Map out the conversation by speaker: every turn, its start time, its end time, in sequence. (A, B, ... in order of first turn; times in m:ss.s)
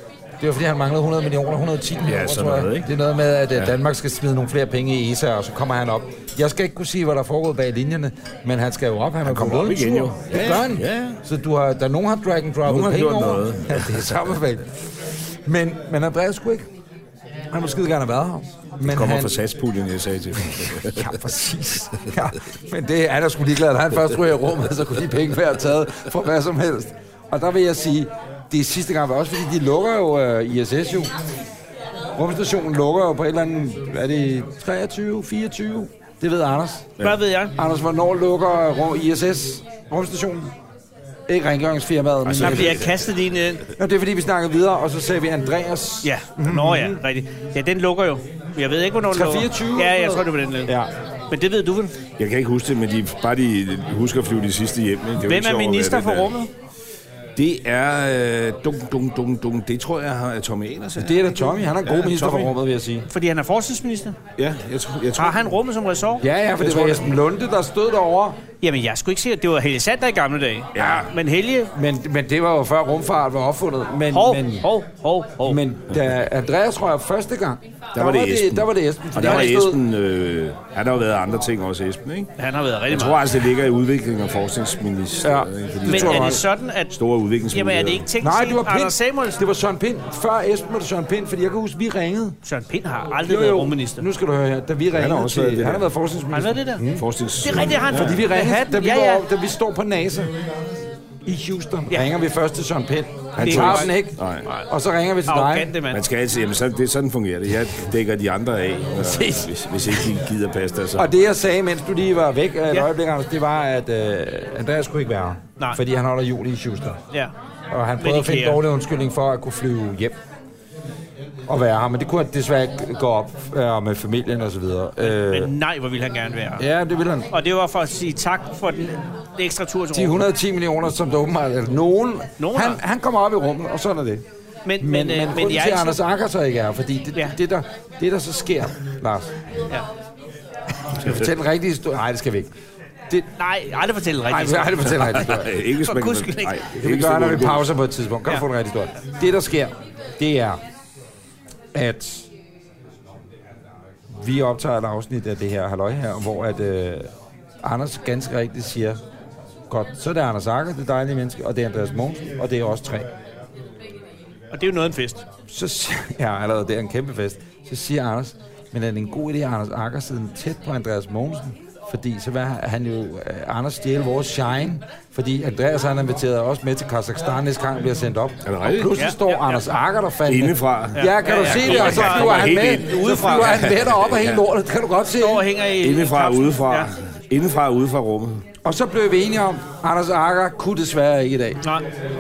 0:00.4-0:16.7 A
0:02.0-0:02.9 B
0:09.2-0:11.2 B
0:12.6-0:14.1 B
0:17.5-0:19.3 A
0:18.8-0:21.2 B
0:20.4-0:31.1 A
0:32.2-0:36.9 A
0:37.0-0:37.5 C
0:37.6-0:40.5 A
0:41.3-0:42.8 A
0:42.2-0:43.0 B
0:42.4-0:43.6 C
0:43.8-0:47.0 A
0:46.0-0:50.7 C
0:49.1-0:50.9 A
0:51.3-0:52.0 C
0:52.2-0:56.3 B
0:55.2-0:56.5 C
0:57.4-1:01.3 B
1:01.0-1:03.1 A
1:01.8-1:02.5 B
1:03.1-1:04.2 C
1:04.4-1:05.4 B
1:05.2-1:06.3 C
1:06.2-1:08.4 A
1:06.6-1:07.1 B
1:08.6-1:11.7 C
1:10.7-1:11.1 B
1:11.7-1:14.7 A
1:14.1-1:15.6 C
1:15.4-1:19.8 A
1:17.9-1:22.3 B
1:19.2-1:19.5 C
1:22.4-1:23.3 C
1:22.9-1:28.1 B
1:25.2-1:26.4 A
1:25.9-1:26.9 C
1:27.5-1:29.4 C
1:28.2-1:32.4 A
1:32.4-1:34.1 C
1:33.2-1:37.0 A
1:34.9-1:35.8 B
1:36.3-1:36.8 C
1:36.9-1:38.2 B
1:37.4-1:39.2 C
1:37.6-1:40.3 A
1:41.2-1:45.8 A
1:43.4-1:44.7 C
1:43.4-1:44.5 B
1:45.3-1:46.0 C
1:45.9-1:51.1 B
1:49.0-1:50.1 A
1:50.9-1:57.0 A
1:57.7-2:00.2 A
1:58.0-1:58.6 C
2:01.5-2:05.5 A
2:05.0-2:06.6 C
2:06.6-2:07.3 A
2:07.3-2:10.2 C
2:09.9-2:14.2 A
2:12.4-2:12.8 C
2:14.6-2:16.0 C
2:14.8-2:19.3 A
2:20.9-2:22.5 A
2:23.4-2:25.2 C
2:24.3-2:25.5 A
2:25.0-2:27.7 B
2:25.8-2:26.6 C
2:26.8-2:30.6 A
2:31.7-2:32.3 A
2:34.1-2:37.1 A
2:37.6-2:39.0 A
2:39.7-2:43.1 A
2:44.5-2:45.2 C
2:45.5-3:05.5 A
2:58.4-2:59.0 B
2:58.9-2:59.6 C
3:00.2-3:04.4 B
3:00.9-3:03.7 C
3:05.2-3:06.9 C
3:05.8-3:08.4 B
3:08.6-3:11.6 A